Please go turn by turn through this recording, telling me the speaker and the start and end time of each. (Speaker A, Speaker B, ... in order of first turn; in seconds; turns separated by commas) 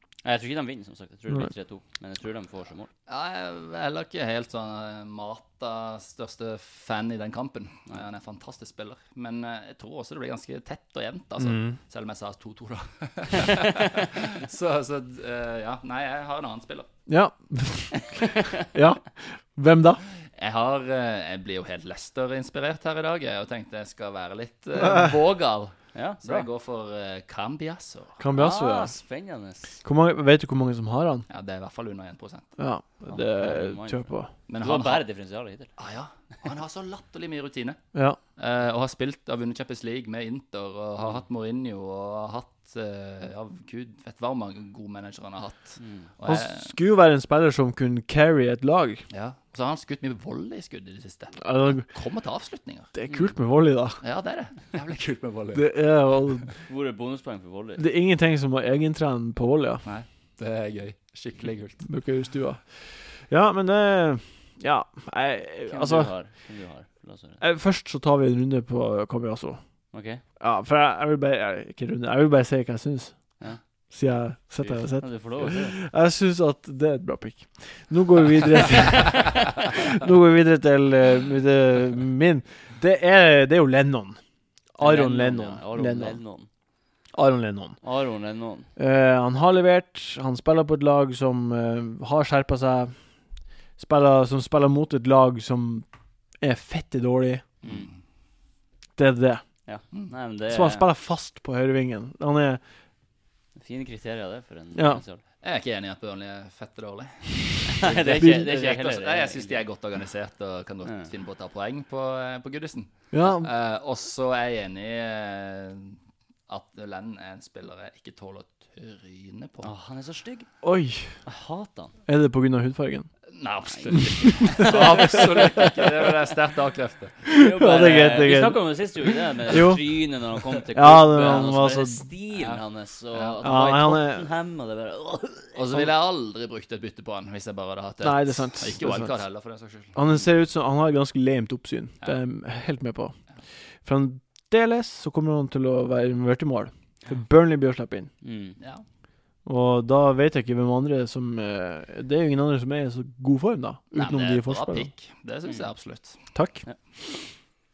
Speaker A: 0.2-2.9, Speaker B: 3.1-16.9, Speaker C: 11.4-11.8, Speaker C: 17.1-20.0, Speaker A: 18.1-18.6, Speaker B: 20.3-28.2, Speaker A: 25.9-26.5, Speaker C: 28.2-28.9, Speaker A: 28.3-29.8, Speaker C: 29.8-31.3, Speaker B: 31.3-32.5, Speaker C: 32.6-34.3, Speaker A: 33.1-35.7, Speaker B: 34.5-35.0, Speaker B: 35.8-37.8, Speaker B: 38.4-46.7, Speaker A: 45.8-46.1, Speaker C: 46.2-49.0, Speaker B: 49.1-52.9, Speaker C: 51.4-51.9, Speaker C: 53.0-54.0, Speaker B: 54.0-55.8, Speaker C: 55.5-56.5, Speaker A: 56.7-57.8, Speaker C: 57.8-59.9, Speaker B: 59.8-61.9, Speaker C: 61.9-66.1, Speaker A: 65.7-67.4, Speaker C: 67.4-69.6, Speaker A: 69.9-70.2, Speaker C: 70.4-73.4, Speaker C: 73.9-84.2, Speaker A: 74.6-75.8, Speaker C: 84.7-86.2, Speaker A: 84.8-86.5, Speaker C: 87.1-87.8, Speaker A: 87.8-88.7, Speaker C: 88.8-93.0, Speaker C: 93.8-95.9, Speaker C: 96.4-97.5, Speaker A: 97.6-97.9, Speaker B: 97.6-98.0, Speaker C: 99.0-99.5, Speaker A: 99.7-100.9, Speaker C: 100.5-102.6, Speaker A: 103.5-105.2, Speaker C: 104.7-105.0, Speaker B: 105.4-119.7, Speaker A: 107.8-109.6, Speaker C: 108.2-108.5, Speaker C: 113.1-113.5, Speaker A: 119.6-120.5, Speaker C: 120.6-121.2, Speaker A: 121.2-121.9, Speaker C: 122.1-123.1, Speaker B: 123.3-127.3, Speaker A: 123.7-125.8, Speaker C: 123.9-125.7, Speaker C: 127.3-130.0, Speaker A: 127.3-135.7, Speaker C: 130.8-132.1, Speaker B: 132.3-133.5, Speaker C: 133.4-134.3, Speaker B: 135.6-140.0, Speaker C: 138.0-139.2, Speaker C: 139.9-143.2, Speaker C: 143.8-148.1, Speaker A: 148.2-148.6, Speaker B: 148.6-148.8, Speaker C: 149.4-154.9, Speaker B: 153.9-156.2, Speaker A: 155.4-155.7, Speaker C: 156.3-157.2